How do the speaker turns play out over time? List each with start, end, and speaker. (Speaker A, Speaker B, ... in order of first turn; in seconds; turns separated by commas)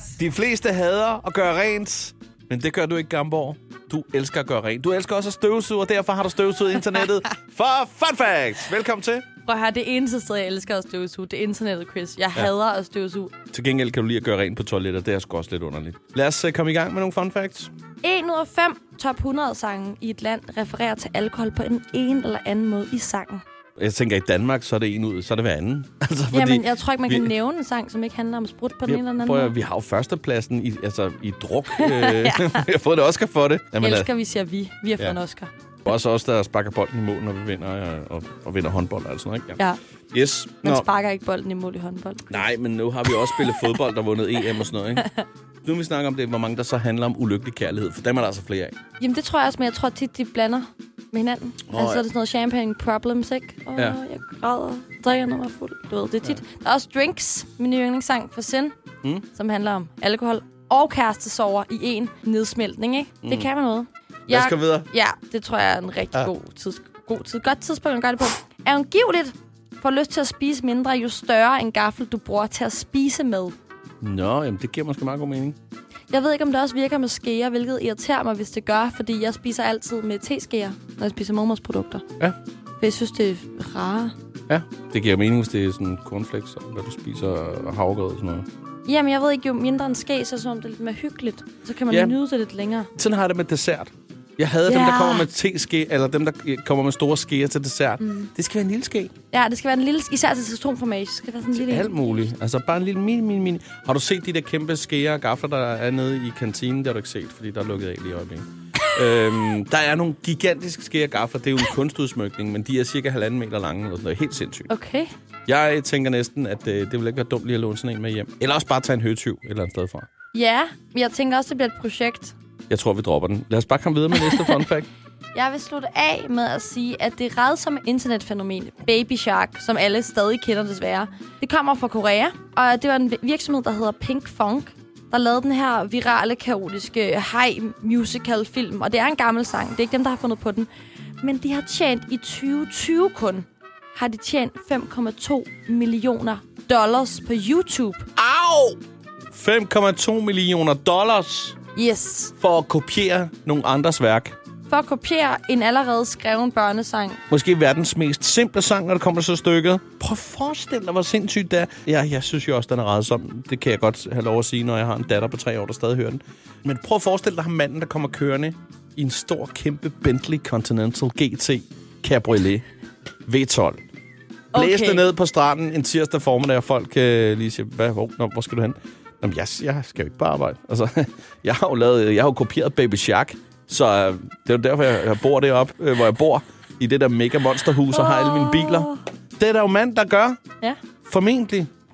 Speaker A: 0.2-9.2, Speaker B: 9.4-13.3, Speaker A: 13.5-17.7, Speaker B: 18.0-23.4, Speaker A: 23.8-27.3, Speaker B: 26.3-29.5, Speaker A: 28.9-34.1, Speaker B: 31.8-32.6, Speaker B: 33.8-35.5, Speaker A: 35.8-39.6, Speaker A: 40.1-40.9, Speaker B: 40.6-42.4, Speaker A: 42.3-45.1, Speaker B: 43.2-43.6, Speaker A: 45.6-48.7, Speaker B: 49.0-58.7, Speaker A: 51.7-52.0, Speaker B: 59.3-73.5, Speaker A: 63.2-63.5, Speaker A: 64.3-64.9, Speaker A: 74.0-75.5, Speaker B: 76.1-82.0, Speaker B: 82.8-84.1, Speaker A: 84.5-88.5, Speaker B: 88.8-92.9, Speaker A: 91.9-92.2, Speaker A: 93.0-99.1, Speaker B: 94.6-95.3, Speaker B: 98.0-98.3, Speaker B: 99.3-102.2, Speaker A: 101.5-114.7, Speaker B: 114.7-115.1, Speaker A: 115.5-120.1, Speaker B: 120.3-122.3, Speaker A: 122.7-124.9, Speaker B: 124.2-124.5, Speaker B: 125.3-140.7, Speaker B: 141.2-148.1, Speaker A: 148.2-148.8, Speaker A: 149.3-151.6, Speaker B: 151.7-152.3, Speaker A: 152.4-154.3, Speaker B: 154.7-157.2, Speaker A: 157.3-172.6, Speaker A: 173.3-173.8, Speaker B: 174.5-175.1, Speaker A: 174.5-190.4, Speaker B: 187.9-189.0, Speaker A: 191.0-191.7